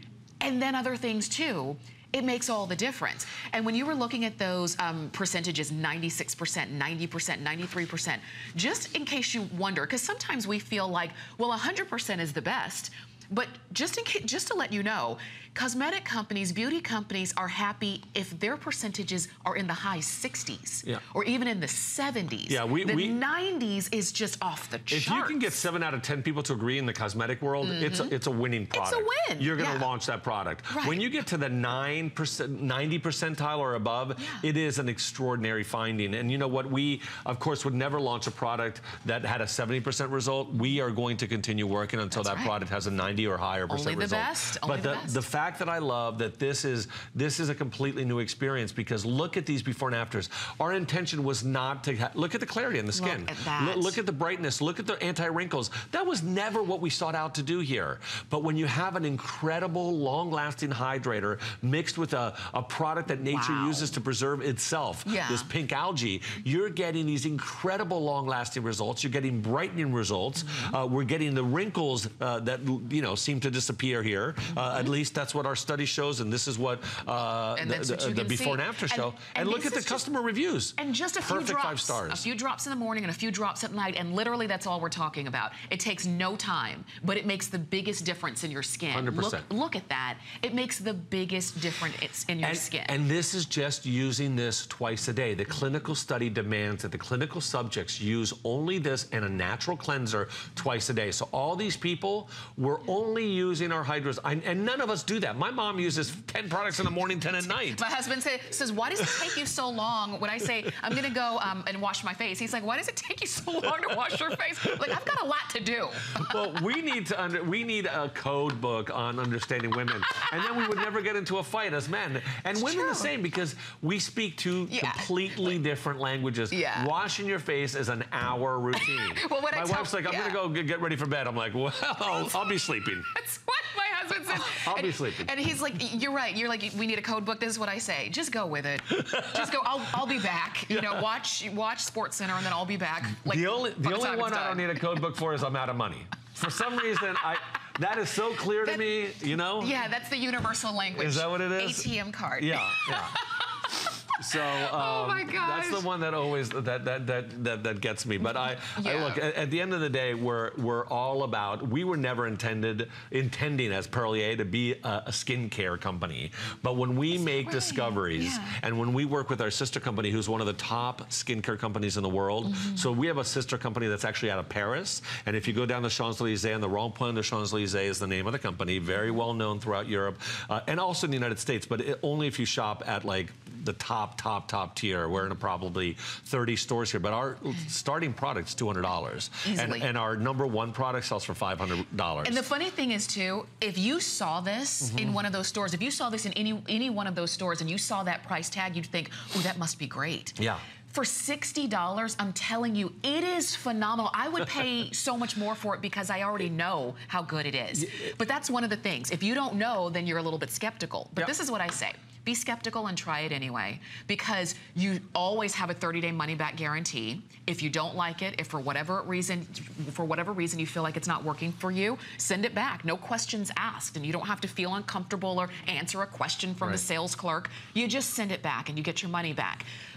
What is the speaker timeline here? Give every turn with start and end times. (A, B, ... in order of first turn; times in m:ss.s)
0:00.4-0:25.6 A
0:22.5-0:23.2 B
0:24.9-1:22.2 B
0:27.6-0:28.2 A
0:28.7-0:29.9 A
0:30.7-0:31.0 A
0:34.2-0:34.4 A
0:42.1-0:42.5 A
0:43.7-0:45.2 A
0:52.9-0:54.0 A
1:03.3-1:03.9 A
1:05.1-1:05.5 A
1:17.6-1:20.0 A
1:20.8-1:33.0 A
1:28.9-1:29.5 B
1:32.4-1:47.8 B
1:47.7-1:56.4 A
1:56.2-2:13.1 B
2:02.6-2:03.1 A
2:04.7-2:05.5 A
2:06.5-2:06.9 A
2:08.8-2:10.4 A
2:13.1-2:24.9 A
2:14.3-2:15.3 B
2:19.0-2:19.5 B
2:20.7-2:21.0 B
2:23.1-2:29.8 B
2:29.6-2:33.7 A
2:30.9-2:33.2 B
2:34.2-3:12.4 B
2:34.3-2:35.9 A
2:38.5-2:39.2 A
2:47.3-2:48.6 A
3:09.4-3:09.9 A
3:12.2-3:49.7 A
3:14.8-3:15.2 B
3:20.4-3:20.6 B